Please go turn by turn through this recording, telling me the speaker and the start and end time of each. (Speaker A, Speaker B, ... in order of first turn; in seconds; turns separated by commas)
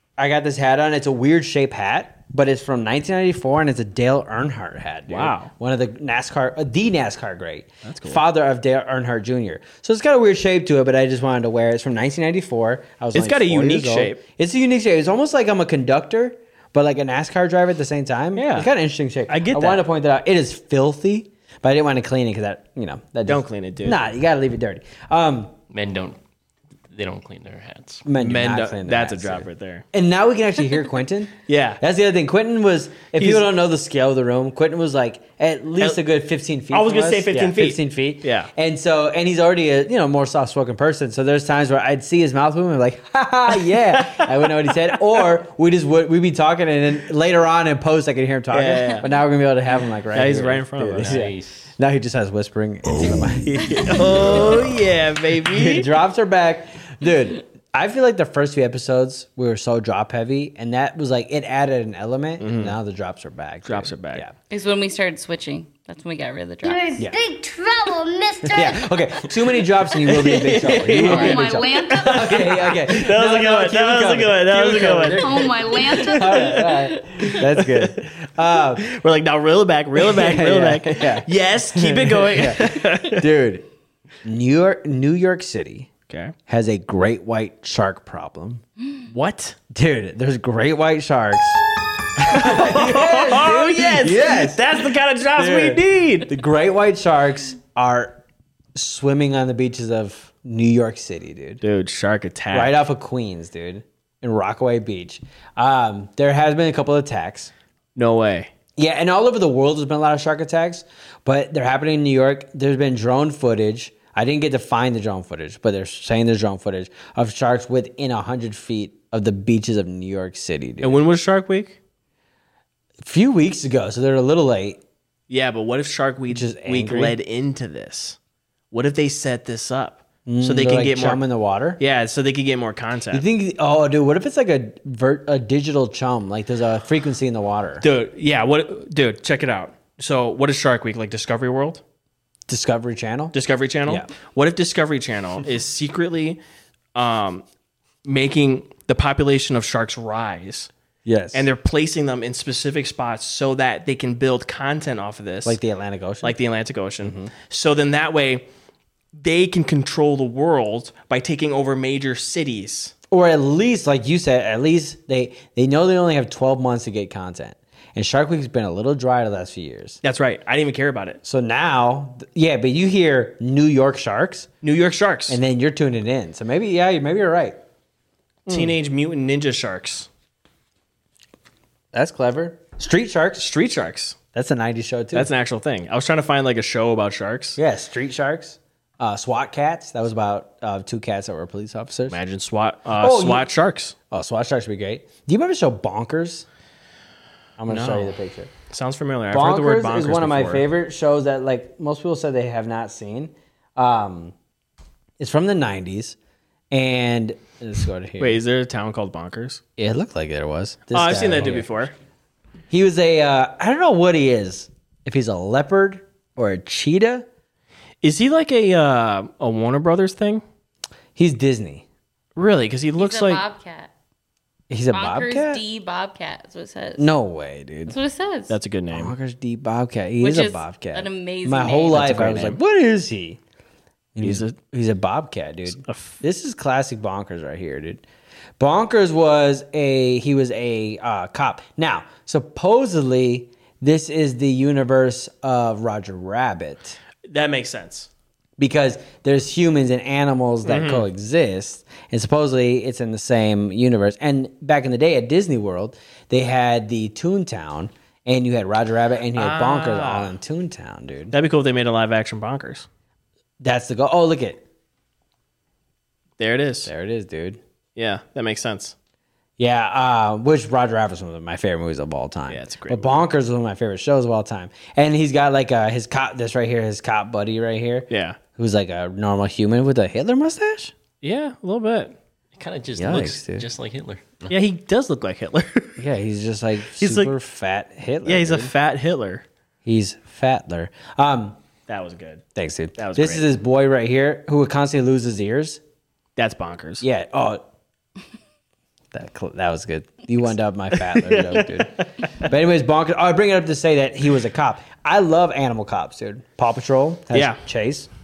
Speaker A: 0.2-25.5, Speaker B: 5.1-5.5, Speaker B: 7.8-8.2, Speaker B: 13.1-14.2, Speaker B: 18.4-18.7, Speaker B: 19.3-19.8, Speaker B: 23.3-24.0, Speaker C: 25.7-26.2, Speaker C: 26.9-28.0, Speaker A: 28.1-54.7, Speaker B: 28.2-29.9, Speaker B: 31.5-31.8, Speaker B: 33.1-33.5, Speaker B: 36.7-38.5, Speaker B: 43.7-45.3, Speaker B: 48.5-49.1, Speaker B: 50.1-51.2, Speaker C: 51.0-51.7, Speaker B: 53.4-55.9, Speaker A: 55.5-64.3, Speaker B: 62.4-62.8, Speaker B: 63.6-64.2, Speaker D: 64.5-67.0, Speaker E: 66.6-68.9, Speaker A: 68.4-78.9, Speaker B: 70.0-76.5, Speaker E: 71.0-72.5, Speaker E: 75.2-76.7, Speaker B: 77.3-78.0, Speaker B: 78.8-83.3, Speaker A: 80.0-83.7, Speaker A: 84.2-85.9, Speaker B: 86.1-86.3, Speaker A: 86.5-88.6, Speaker B: 89.1-89.6, Speaker A: 89.7-91.7, Speaker A: 92.2-98.2, Speaker B: 92.3-96.3, Speaker A: 98.8-101.6, Speaker B: 101.6-102.8, Speaker A: 102.5-107.5, Speaker B: 108.0-108.5, Speaker A: 108.8-121.0, Speaker B: 120.8-121.8, Speaker A: 123.0-124.8, Speaker B: 125.3-128.2, Speaker A: 126.3-127.2, Speaker B: 128.7-131.2, Speaker A: 130.3-131.8, Speaker B: 131.8-133.3, Speaker A: 133.1-137.8, Speaker B: 137.8-141.8, Speaker A: 142.5-143.3, Speaker B: 143.3-146.4, Speaker B: 146.9-147.4, Speaker B: 148.0-150.7, Speaker A: 151.1-151.5, Speaker B: 151.3-155.6, Speaker A: 155.4-156.4, Speaker B: 156.2-158.4, Speaker A: 157.0-157.3, Speaker B: 159.2-162.9, Speaker A: 163.1-170.0, Speaker B: 170.0-171.2, Speaker A: 171.2-174.5, Speaker B: 174.6-175.4, Speaker A: 175.3-177.6, Speaker B: 178.5-180.1, Speaker A: 178.5-178.7, Speaker A: 181.9-183.5, Speaker B: 183.4-184.2, Speaker A: 184.3-185.3, Speaker B: 185.1-187.6, Speaker A: 187.6-192.2, Speaker B: 192.1-194.0, Speaker A: 193.0-193.5, Speaker A: 194.1-196.5, Speaker A: 197.6-198.5, Speaker B: 197.7-198.1, Speaker B: 198.7-200.7, Speaker A: 199.3-204.3, Speaker A: 205.2-206.2, Speaker A: 206.7-208.4, Speaker B: 208.2-209.6, Speaker A: 209.8-211.8, Speaker B: 210.9-211.9, Speaker A: 212.7-217.2, Speaker B: 218.0-220.4, Speaker A: 221.2-221.8, Speaker B: 222.3-223.4, Speaker D: 223.0-223.9, Speaker A: 224.7-225.6, Speaker D: 224.9-227.1, Speaker A: 227.0-228.0, Speaker D: 227.9-228.6, Speaker B: 228.5-229.2, Speaker A: 228.9-233.4, Speaker D: 230.2-232.1, Speaker B: 231.9-232.6, Speaker A: 234.2-238.0, Speaker B: 234.2-234.6, Speaker B: 235.7-236.2, Speaker A: 238.6-247.0, Speaker B: 247.2-248.1, Speaker A: 248.6-261.3, Speaker B: 250.7-251.1, Speaker B: 259.3-260.4, Speaker B: 261.3-262.9, Speaker A: 263.6-264.6, Speaker B: 266.4-266.9, Speaker A: 266.8-267.6, Speaker B: 268.0-268.9, Speaker A: 269.6-280.9, Speaker B: 272.5-273.2, Speaker B: 278.1-278.4, Speaker B: 281.2-282.2, Speaker C: 282.5-284.6, Speaker A: 283.0-283.7, Speaker B: 284.5-286.0, Speaker A: 286.0-288.7, Speaker B: 287.0-287.4, Speaker B: 288.2-289.4, Speaker A: 289.9-291.6, Speaker B: 291.9-292.4, Speaker A: 292.6-295.8, Speaker B: 293.0-293.5, Speaker B: 296.4-297.1, Speaker A: 297.0-297.6, Speaker A: 299.1-308.1, Speaker B: 300.9-302.5, Speaker B: 307.3-307.6